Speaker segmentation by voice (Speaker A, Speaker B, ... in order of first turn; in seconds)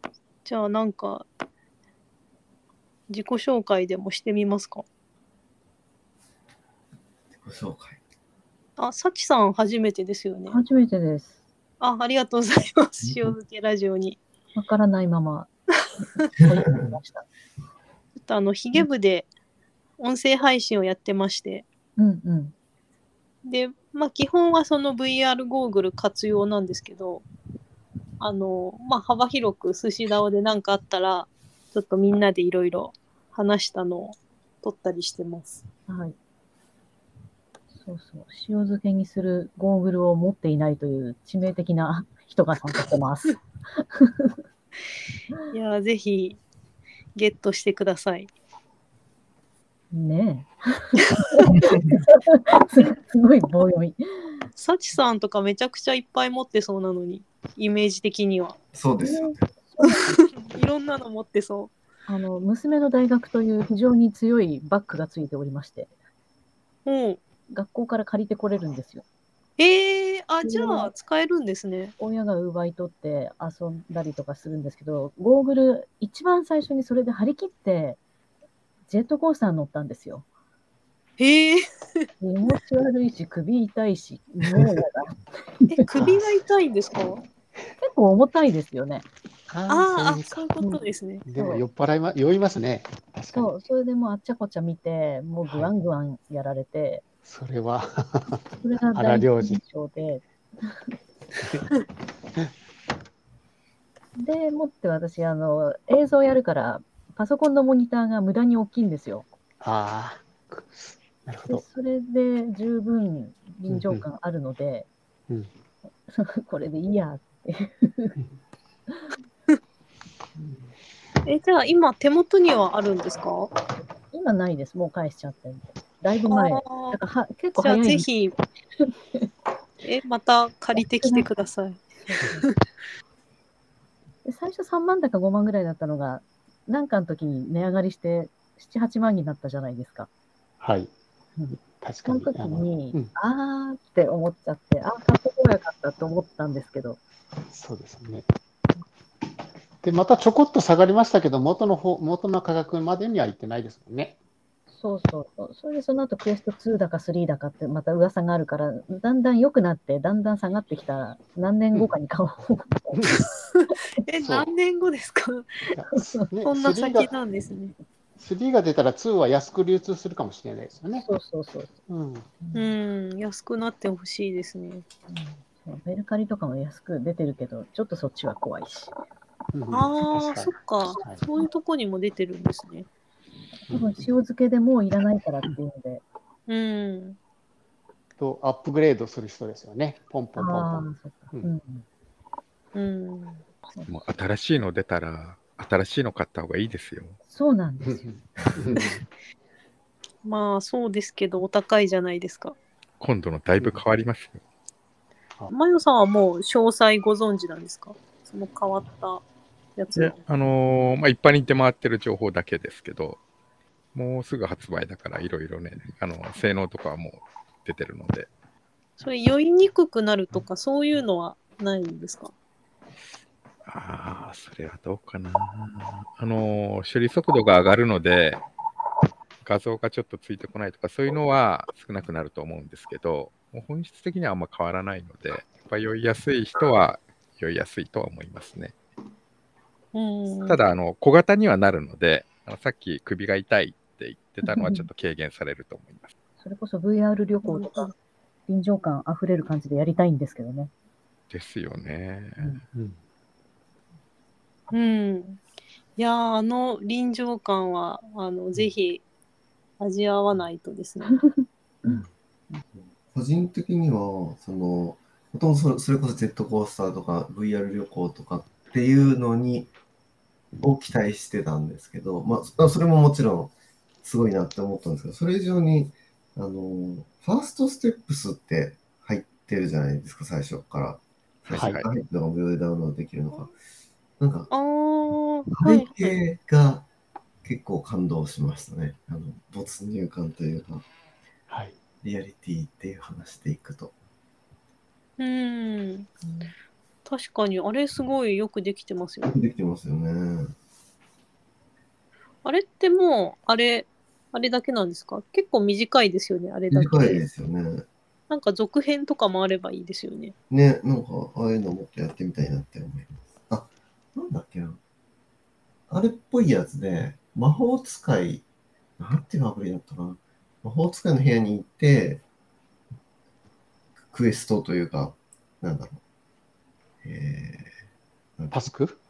Speaker A: 0.4-1.3, 3.1-4.8, 8.8-10.6, 11.8-14.2, 18.2-19.3, 20.0-21.7, 23.4-27.2, 28.2-35.6, 45.5-46.4, 47.1-48.3, 54.5-58.6, 59.8-61.8, 66.8-67.2, 69.6-71.9, 81.2-82.0, 85.7-87.2, 89.7-91.2, 121.2-123.5, 126.3-127.0, 127.5-128.4, 129.8-131.8, 164.1-165.5, 166.4-167.7, 172.5-174.8, 179.7-182.9, 186.5-187.2, 192.7-193.4, 200.2-202.6, 205.5-210.2, 219.0-222.3, 239.9-240.6, 247.4-247.9, 254.7-255.4, 256.0-259.0, 259.8-261.1, 284.5-286.1, 295.2-296.1, 297.0-299.3, 302.4-307.2, 308.3-310.3
Speaker B: 7.3-8.0, 13.0-13.3, 58.7-59.4, 262.7-269.7, 270.6-283.5, 284.2-284.5, 285.5-286.9, 287.4-290.9, 292.0-293.9, 299.2-300.5, 306.7-307.8, 310.5-314.8, 315.9-318.4, 319.0-322.2, 324.1-326.0, 327.0-327.7, 328.4-328.7
Speaker C: 10.5-11.3, 14.5-15.5, 16.0-17.2, 22.0-22.5, 35.9-36.1, 37.7-44.3, 49.9-54.5, 59.1-60.1, 62.1-65.9, 67.5-69.0, 70.4-70.9, 72.0-78.0, 78.9-80.2, 82.2-85.2, 87.8-89.1, 91.3-91.6, 93.3-97.0, 98.6-100.2, 104.2-109.2, 111.5-114.9, 116.1-118.2, 124.0-128.1, 130.7-131.3, 134.2-140.1, 141.4-147.0, 154.7-163.1, 171.0-171.7, 172.4-172.7, 175.1-178.9, 183.7-186.0, 190.3-191.8, 197.2-198.1, 244.4-244.9, 246.4-247.9, 248.5-250.7, 296.2-296.5
Speaker D: 89.5-90.4, 91.2-93.5, 95.5-95.7, 97.2-99.6, 101.4-101.7, 109.6-111.6, 113.7-114.1, 120.4-120.7, 140.6-140.9, 141.6-143.1, 147.5-148.2, 149.8-154.2, 164.2-164.5, 165.7-167.1, 168.2-171.1, 171.9-172.3, 179.5-181.2, 183.7-184.1, 188.2-191.5, 197.8-199.0, 252.7-253.0, 281.5-281.8, 291.5-291.7, 328.5-329.0
Speaker E: 193.9-197.2, 203.0-204.4, 209.9-213.2, 213.9-218.3, 223.7-228.4, 229.4-238.8, 240.4-246.1, 251.3-252.6